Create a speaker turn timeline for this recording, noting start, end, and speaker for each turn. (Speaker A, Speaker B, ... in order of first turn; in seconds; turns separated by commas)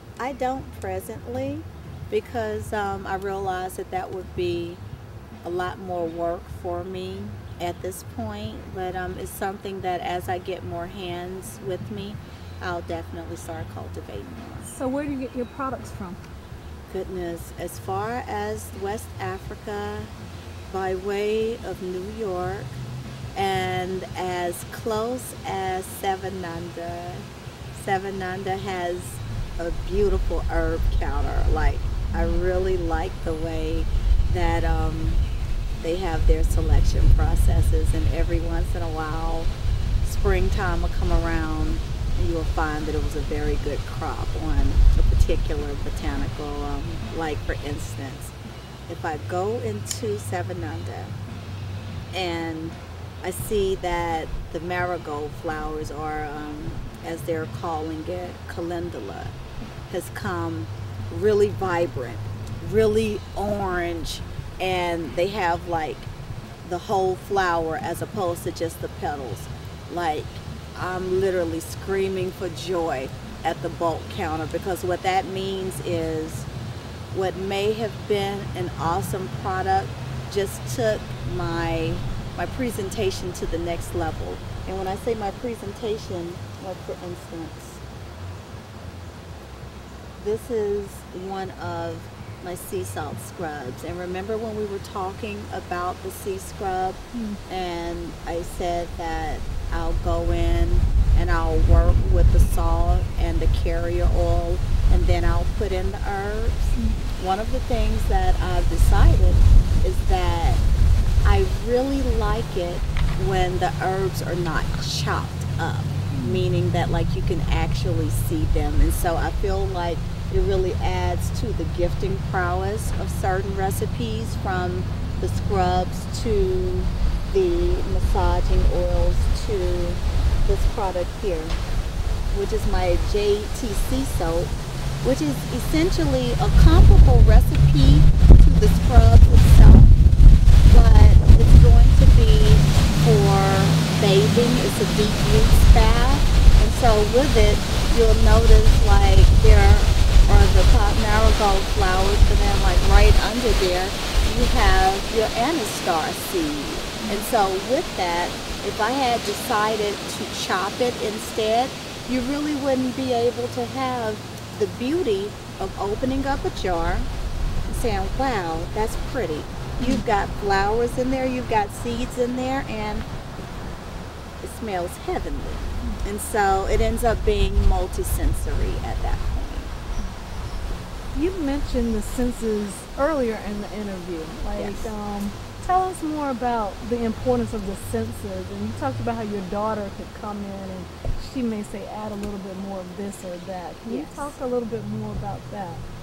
Speaker A: 0.2-4.8, Speaker A: 5.4-14.7, Speaker B: 14.7-16.2, Speaker A: 16.9-20.1, Speaker A: 20.7-22.8, Speaker A: 23.4-35.2, Speaker A: 35.8-39.5, Speaker A: 40.0-48.4, Speaker A: 48.9-51.1, Speaker A: 52.1-59.3, Speaker A: 59.9-66.1, Speaker A: 66.6-76.5, Speaker A: 77.1-87.8, Speaker A: 90.2-110.6, Speaker B: 97.1-97.4, Speaker A: 111.2-131.6, Speaker B: 116.1-116.4, Speaker A: 132.3-134.5, Speaker A: 135.0-140.0, Speaker A: 140.7-167.1, Speaker B: 157.0-157.3, Speaker A: 167.7-173.1, Speaker B: 169.8-170.0, Speaker A: 174.4-179.7, Speaker B: 181.1-195.8, Speaker A: 184.6-184.9, Speaker A: 193.9-194.3